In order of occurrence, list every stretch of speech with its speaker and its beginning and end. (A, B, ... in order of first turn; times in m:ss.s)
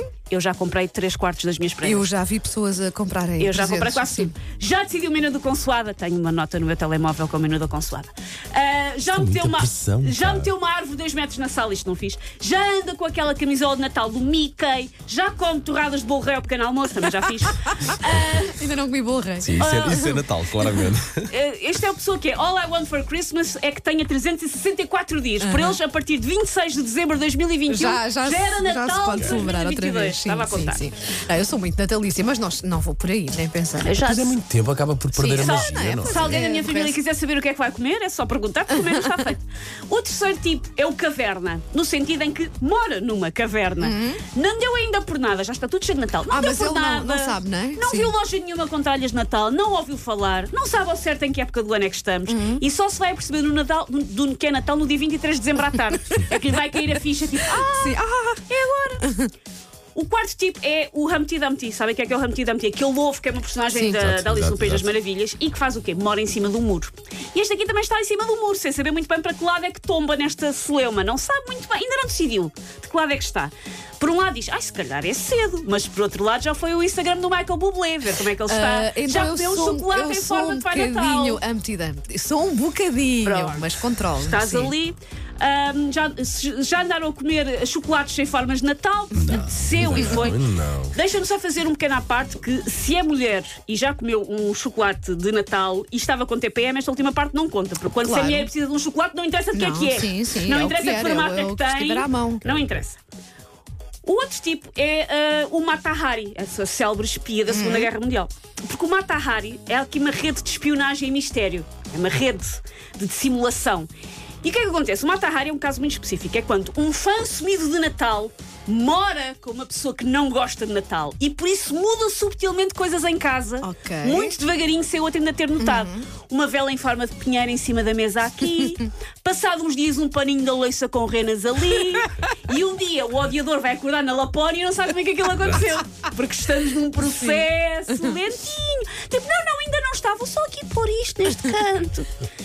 0:00.3-0:02.1 A
0:01.8-0:04.3 B
0:03.4-0:18.6 A
0:09.2-0:10.5 C
0:17.9-0:20.2 B
0:19.4-0:21.3 C
0:19.6-0:20.2 A
0:21.3-0:30.8 A
0:25.4-0:25.8 B
0:27.7-0:34.0 B
0:33.8-0:34.4 A
0:34.0-0:36.1 C
0:35.1-0:37.0 B
0:35.3-0:58.0 A
0:38.7-0:39.3 B
0:43.8-0:44.2 B
0:46.3-0:48.1 B
0:52.3-0:52.6 B
0:57.5-0:58.4 B
0:58.5-0:59.1 A
0:59.0-0:59.3 B
1:00.0-1:21.4 A
1:04.0-1:04.8 C
1:18.5-1:24.8 B
1:23.2-1:23.7 A
1:24.2-1:30.4 A
1:29.2-1:30.9 C
1:29.8-1:30.2 B
1:30.9-1:43.0 A
1:38.0-1:38.5 B
1:39.5-1:42.4 B
1:44.0-1:53.9 A
1:47.5-1:47.9 B
1:54.4-2:22.1 A
2:03.6-2:04.4 B
2:05.6-2:06.1 B